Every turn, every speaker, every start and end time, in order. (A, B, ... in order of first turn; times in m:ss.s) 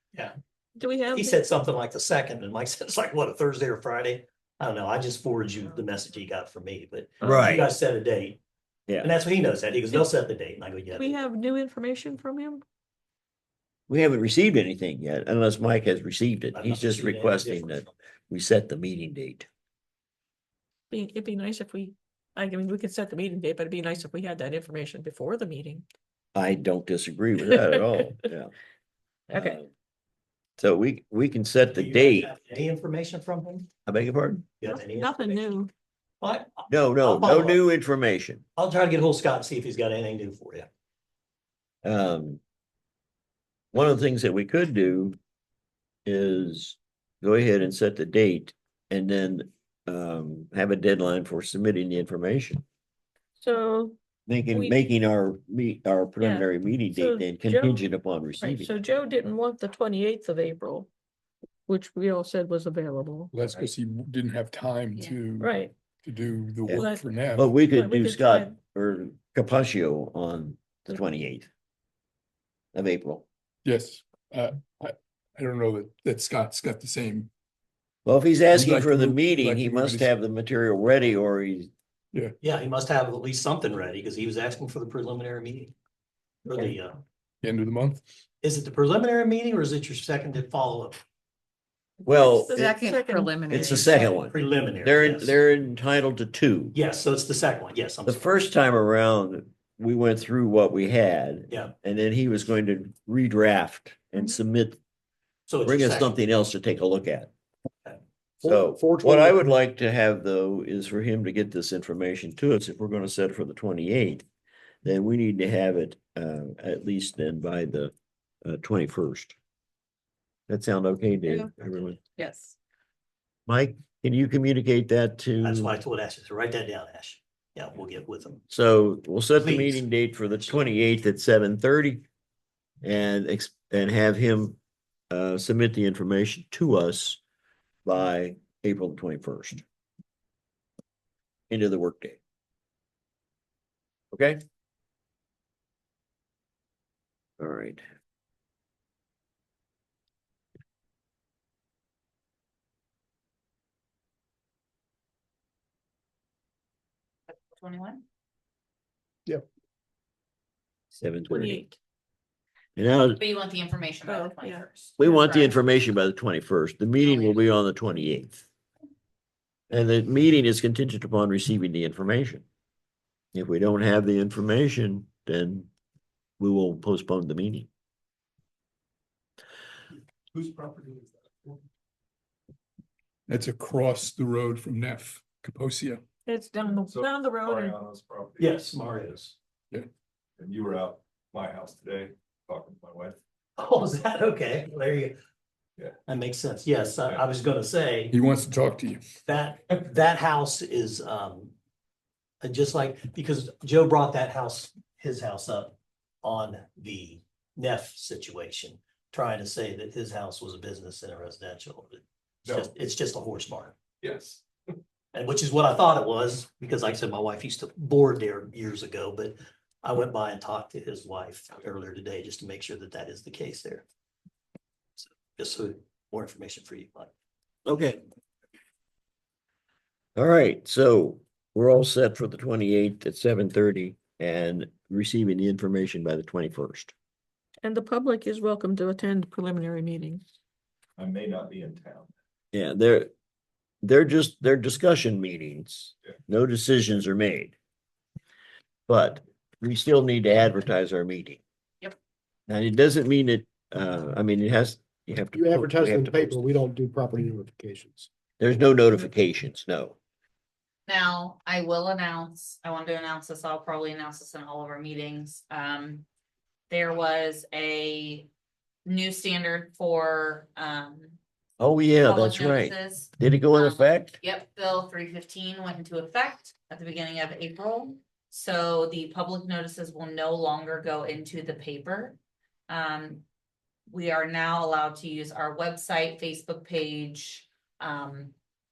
0:00.8-0:01.4 A
0:01.1-0:08.4 B
0:05.7-0:06.1 A
0:07.2-0:07.7 C
0:09.0-0:11.2 B
0:10.9-0:12.6 A
0:13.9-0:19.5 C
0:16.5-0:17.9 B
0:20.9-0:25.8 A
0:26.3-0:28.5 C
0:29.3-0:29.6 A
0:29.3-0:29.7 C
0:30.6-0:32.3 C
0:31.7-0:33.7 B
0:33.8-0:34.5 C
0:34.6-0:35.6 B
0:34.6-0:35.7 A
0:36.2-0:37.6 B
0:36.7-0:38.4 C
0:38.6-0:40.7 B
0:41.8-0:42.4 C
0:43.7-0:45.2 C
0:46.0-0:52.6 C
0:53.4-0:54.0 A
0:54.3-0:58.7 C
0:56.2-0:57.9 A
0:58.4-1:00.9 A
1:01.7-1:03.3 A
1:03.3-1:07.5 D
1:05.4-1:05.7 A
1:06.6-1:11.5 C
1:06.7-1:07.1 A
1:07.6-1:08.5 A
1:12.7-1:13.2 C
1:13.6-1:17.3 D
1:18.0-1:21.7 C
1:18.5-1:20.1 D
1:22.4-1:25.7 B
1:26.4-1:27.0 B
1:27.4-1:28.0 D
1:28.4-1:31.0 B
1:32.0-1:34.1 A
1:32.0-1:32.8 C
1:32.6-1:35.4 B
1:33.5-1:36.7 C
1:36.7-1:38.4 B
1:38.0-1:44.8 C
1:45.5-1:46.1 B
1:45.6-1:47.3 C
1:48.4-1:49.4 E
1:48.4-1:54.2 C
1:54.8-1:59.3 C
2:00.5-2:02.0 C
2:03.5-2:05.8 C
2:05.4-2:08.4 B
2:08.5-2:12.0 C
2:09.4-2:09.8 B
2:12.8-2:14.6 C
2:15.1-2:17.2 C
2:17.8-2:19.6 C
2:21.5-2:22.2 C
2:24.1-2:24.4 C
2:27.4-2:27.8 C
2:37.3-2:38.0 F
2:41.0-2:41.6 C
2:41.3-2:41.8 A
2:42.8-2:43.2 C
2:43.2-2:45.7 F
2:44.0-2:44.6 A
2:45.0-2:48.4 C
2:47.0-2:47.4 F
2:49.7-2:52.4 C
2:53.3-2:55.7 C
2:56.4-2:57.7 C
3:00.3-3:01.6 G
3:03.3-3:06.0 D
3:06.2-3:07.8 A
3:06.8-3:08.8 G
3:08.4-3:09.3 B
3:10.4-3:13.2 G
3:13.6-3:15.2 B
3:16.0-3:18.1 B
3:18.1-3:19.1 D
3:19.2-3:21.5 B
3:22.4-3:33.8 B
3:32.4-3:32.7 G
3:34.0-3:34.4 G
3:35.1-3:43.8 B
3:45.0-3:47.1 B
3:47.6-3:48.0 C
3:50.2-3:56.9 C
3:57.6-4:00.2 A
4:01.0-4:02.1 G
4:02.5-4:03.1 C
4:03.8-4:07.6 C
4:08.9-4:11.4 C
4:12.5-4:16.4 C
4:15.3-4:18.1 E
4:18.4-4:20.0 C
4:20.9-4:26.0 F
4:26.7-4:28.3 F
4:28.8-4:31.2 F
4:31.6-4:34.2 C
4:32.0-4:42.2 F
4:42.7-4:43.2 F
4:43.9-4:48.3 F